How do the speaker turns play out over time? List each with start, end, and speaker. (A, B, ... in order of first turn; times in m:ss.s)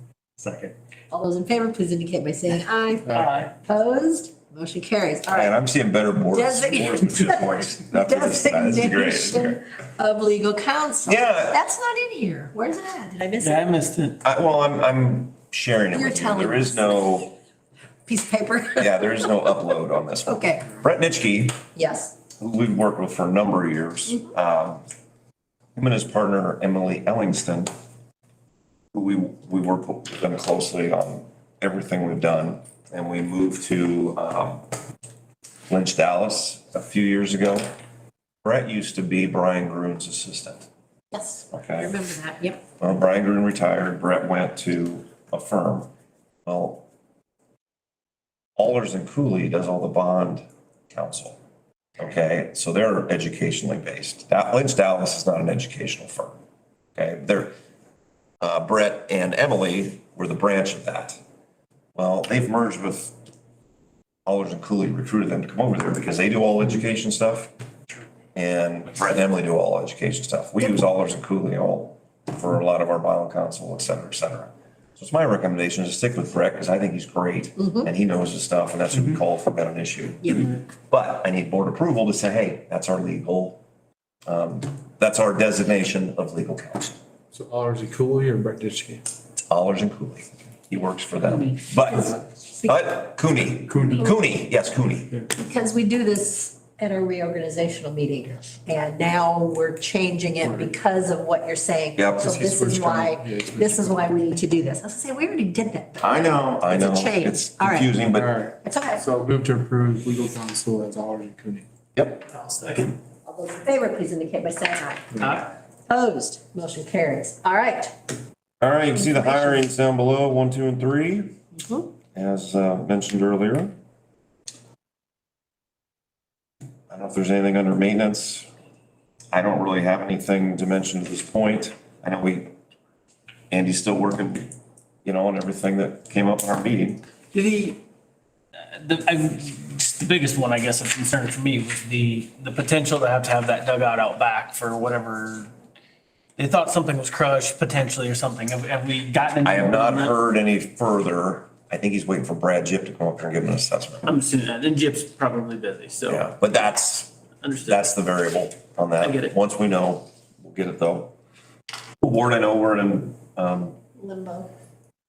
0:00.4-0:00.7 A
0:01.1-0:05.5 B
0:03.0-0:03.3 C
0:03.1-0:03.5 A
0:05.3-0:09.6 D
0:06.3-0:13.6 B
0:11.0-0:11.6 D
0:13.4-0:14.2 A
0:14.2-0:17.3 D
0:15.9-0:17.3 B
0:18.1-0:19.5 B
0:18.8-0:21.6 D
0:20.3-0:20.7 B
0:21.7-0:22.1 B
0:22.4-0:24.8 D
0:25.8-0:27.7 D
0:28.9-0:34.6 D
0:35.7-0:37.6 D
0:38.4-0:40.7 D
0:41.1-0:42.6 B
0:41.5-0:41.9 D
0:42.8-0:45.9 D
0:46.4-0:46.8 D
0:48.6-0:51.4 D
0:52.0-0:56.4 D
0:56.9-0:57.5 D
0:58.4-1:01.2 D
1:01.9-1:03.1 D
1:04.2-1:07.5 D
1:08.3-1:23.6 D
1:17.6-1:17.9 B
1:24.3-1:27.0 D
1:27.3-1:29.0 C
1:29.5-1:35.2 D
1:31.9-1:32.8 B
1:33.7-1:34.1 C
1:35.3-1:47.9 B
1:40.4-1:40.7 C
1:42.0-1:42.3 D
1:42.2-1:44.0 C
1:46.0-1:48.4 D
1:48.1-1:51.6 C
1:48.6-1:49.0 B
1:51.9-1:52.3 D
1:52.3-1:52.9 A
1:53.2-1:57.9 B
1:58.6-2:01.3 D
1:59.0-1:59.6 B
2:01.5-2:01.9 B
2:02.1-2:03.7 D
2:06.9-2:08.5 D
2:09.3-2:12.5 D
2:13.5-2:14.5 D
2:15.0-2:17.0 D
2:17.3-2:17.8 A
2:18.6-2:25.5 A
2:26.4-2:30.2 A
2:29.4-2:34.0 D
2:34.0-2:36.3 A
2:36.0-2:37.1 D
2:37.4-2:37.9 A
2:37.6-2:41.1 D
2:39.0-2:39.4 A
2:42.0-2:43.7 D
2:44.0-2:44.5 B